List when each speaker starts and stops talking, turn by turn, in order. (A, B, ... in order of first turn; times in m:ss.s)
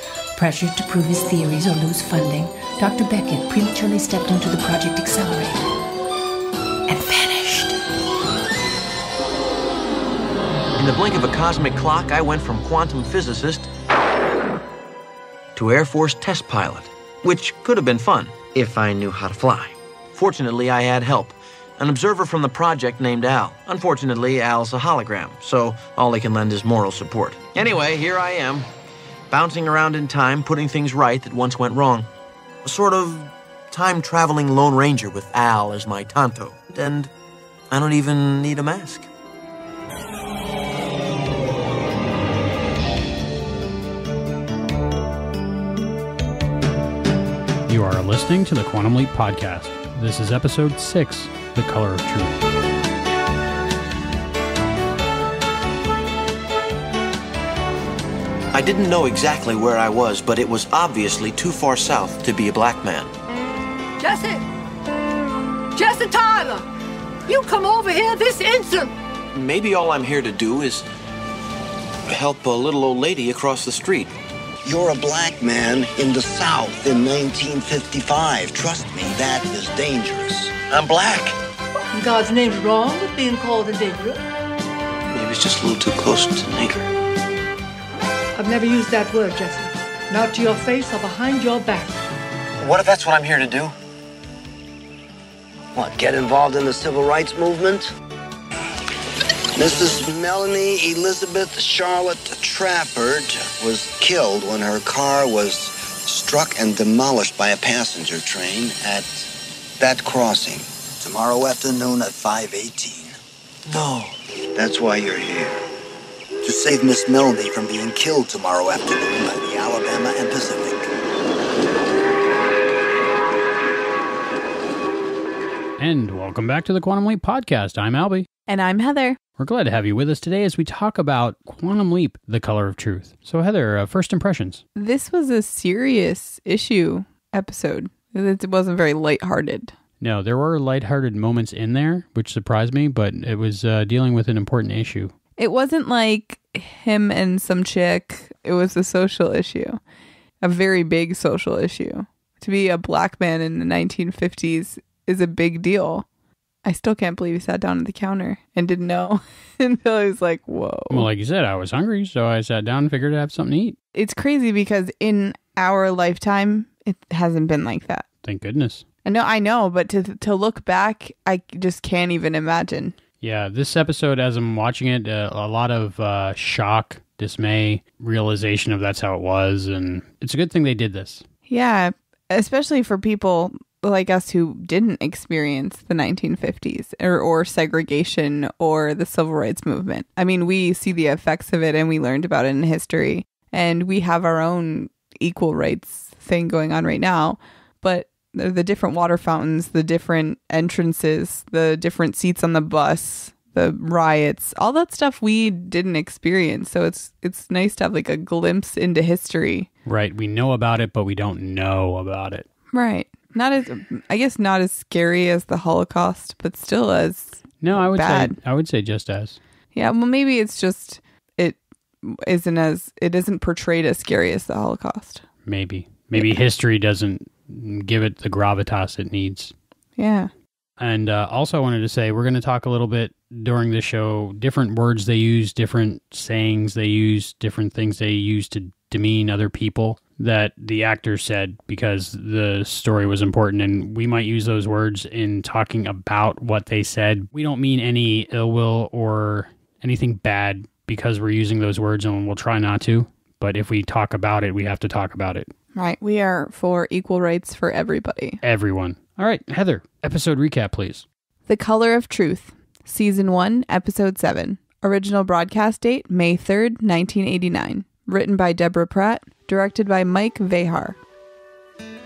0:00.4-0:05.7 A
0:06.9-0:07.8 A
0:10.8-0:13.7 B
0:15.6-0:28.7 B
0:29.3-0:32.1 B
0:32.6-0:37.1 B
0:37.7-0:39.1 B
0:47.7-0:52.4 C
0:58.5-1:03.1 B
1:04.0-1:04.4 D
1:05.7-1:06.7 D
1:07.3-1:08.9 D
1:09.3-1:10.9 B
1:12.1-1:14.1 B
1:14.6-1:20.6 E
1:20.7-1:21.3 B
1:21.9-1:24.2 D
1:25.1-1:26.9 B
1:28.3-1:32.0 D
1:32.6-1:33.7 E
1:33.1-1:33.5 B
1:35.8-1:37.9 E
1:39.6-1:53.2 E
1:53.7-1:54.1 B
1:54.5-1:55.6 E
1:56.4-2:00.9 E
2:05.8-2:08.3 C
2:08.5-2:09.2 F
2:09.4-2:14.6 C
2:14.8-2:19.7 F
2:20.0-2:25.1 C
2:25.4-2:29.8 F
2:30.4-2:36.1 F
2:36.6-2:41.1 F
2:40.9-2:43.8 C
2:43.9-2:48.0 F
2:48.2-2:48.8 C
2:49.0-2:53.0 F
2:53.2-3:01.2 C
3:01.5-3:29.7 F
3:29.9-3:32.4 C
3:32.7-3:38.4 F
3:37.6-3:39.4 C
3:39.7-3:45.2 F
3:45.4-3:49.5 C
3:50.0-3:50.3 F
3:50.8-4:15.5 C
4:15.8-4:18.4 F
4:18.4-4:21.1 C
4:21.5-4:31.0 F